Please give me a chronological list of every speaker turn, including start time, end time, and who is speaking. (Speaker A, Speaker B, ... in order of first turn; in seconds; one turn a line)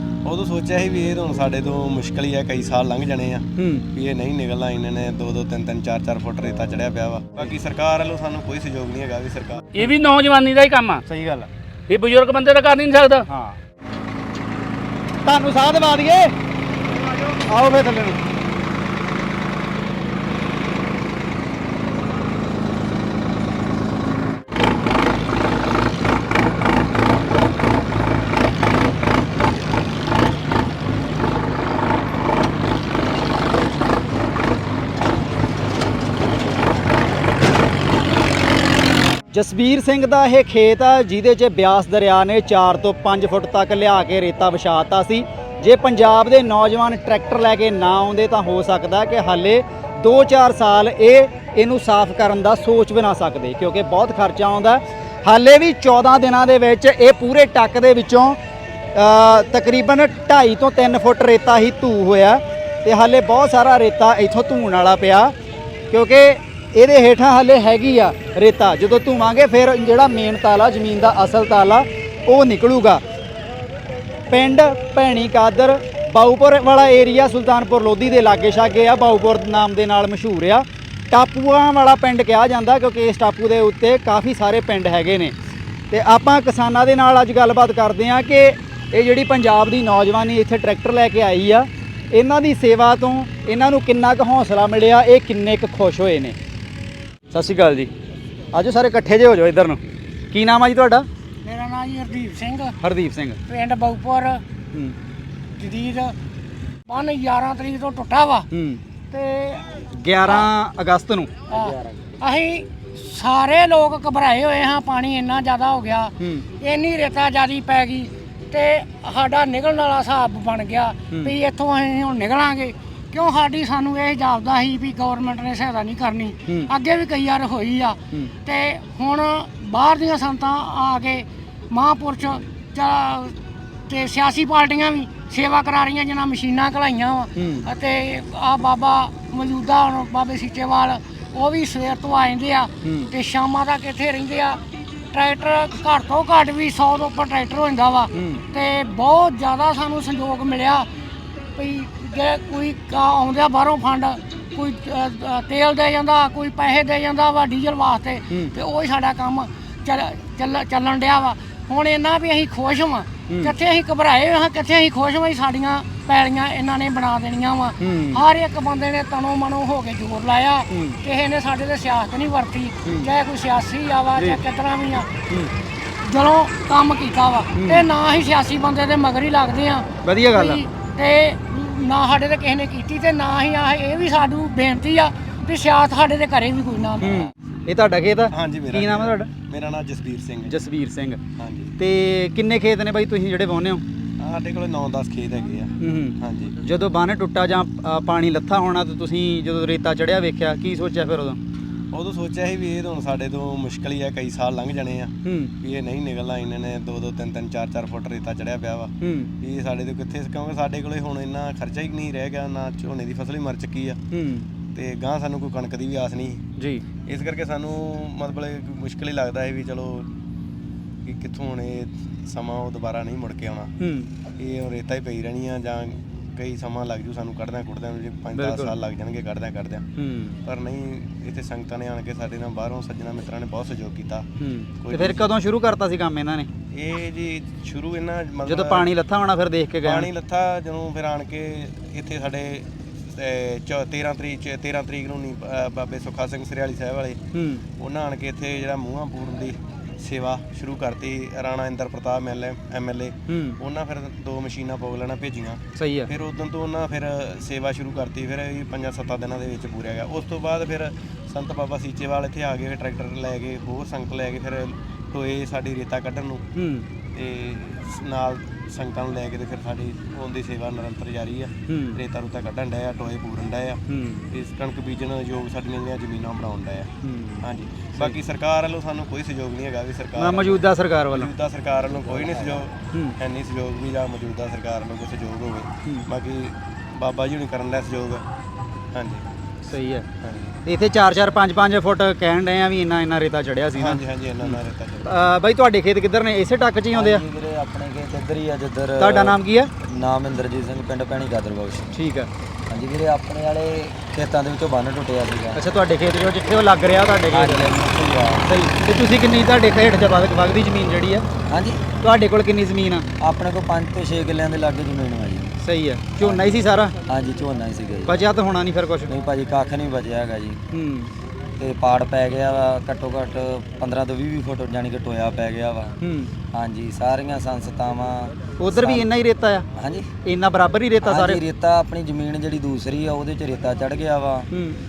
Speaker A: 0.2-9.7
Speaker B: 3.6-3.9
Speaker C: 9.8-11.0
Speaker B: 11.1-11.5
Speaker C: 11.9-13.3
Speaker B: 13.3-13.6
Speaker B: 15.2-16.3
Speaker B: 17.2-18.2
Speaker B: 39.3-58.4
Speaker B: 58.9-65.3
Speaker B: 65.9-73.0
Speaker B: 74.3-85.3
Speaker B: 85.9-96.4
Speaker B: 97.3-97.9
Speaker B: 98.5-99.8
Speaker B: 100.3-101.1
Speaker D: 101.4-102.8
Speaker B: 102.8-103.4
Speaker D: 103.5-104.4
Speaker D: 105.6-106.2
Speaker D: 106.9-108.5
Speaker B: 108.5-108.8
Speaker D: 109.1-109.7
Speaker B: 109.9-111.3
Speaker D: 111.5-133.4
Speaker B: 116.2-116.5
Speaker D: 133.9-144.6
Speaker B: 137.4-137.7
Speaker B: 142.8-143.1
Speaker D: 145.1-150.9
Speaker B: 148.1-148.4
Speaker D: 151.6-175.1
Speaker B: 163.3-163.5
Speaker B: 167.8-168.2
Speaker B: 170.7-171.0
Speaker D: 176.0-187.2
Speaker B: 177.6-177.9
Speaker B: 180.0-180.6
Speaker B: 187.0-189.3
Speaker A: 188.3-190.5
Speaker B: 190.5-191.2
Speaker A: 191.4-191.8
Speaker B: 191.8-193.8
Speaker A: 194.2-196.6
Speaker B: 195.8-201.4
Speaker A: 201.9-214.0
Speaker B: 205.2-205.5
Speaker B: 209.0-209.3
Speaker B: 214.1-214.5
Speaker A: 214.7-216.4
Speaker B: 216.6-216.8
Speaker A: 217.1-220.1
Speaker A: 221.1-223.7
Speaker B: 223.8-224.1
Speaker A: 224.4-229.8
Speaker B: 228.3-228.7
Speaker B: 230.0-230.4
Speaker A: 230.4-234.3
Speaker B: 234.4-236.5
Speaker A: 234.8-235.3
Speaker A: 236.7-238.9
Speaker B: 238.5-240.1
Speaker A: 239.8-247.2
Speaker B: 247.3-247.6
Speaker A: 247.8-266.4
Speaker B: 253.3-253.6
Speaker B: 255.8-256.1
Speaker B: 266.6-266.9
Speaker A: 267.1-273.8
Speaker B: 271.7-272.0
Speaker B: 273.9-274.3
Speaker A: 274.3-276.9
Speaker B: 277.0-278.2
Speaker A: 277.4-288.2
Speaker B: 280.2-281.3
Speaker E: 282.2-282.6
Speaker A: 288.9-289.3
Speaker B: 289.6-290.1
Speaker A: 290.2-290.5
Speaker B: 290.6-297.2
Speaker A: 293.8-295.1
Speaker E: 296.9-301.9
Speaker B: 299.0-299.7
Speaker B: 301.9-302.3
Speaker E: 302.7-305.6
Speaker B: 305.6-307.7
Speaker E: 307.3-308.5
Speaker B: 308.4-311.3
Speaker E: 311.4-311.9
Speaker B: 312.0-313.1
Speaker E: 313.2-315.6
Speaker B: 315.6-316.9
Speaker E: 316.2-318.3
Speaker B: 318.1-319.1
Speaker E: 319.1-320.6
Speaker B: 320.7-321.1
Speaker E: 321.6-326.0
Speaker B: 326.0-326.3
Speaker E: 326.5-329.1
Speaker B: 328.6-329.7
Speaker E: 329.8-330.1
Speaker B: 330.2-331.4
Speaker E: 331.0-334.5
Speaker B: 334.5-334.8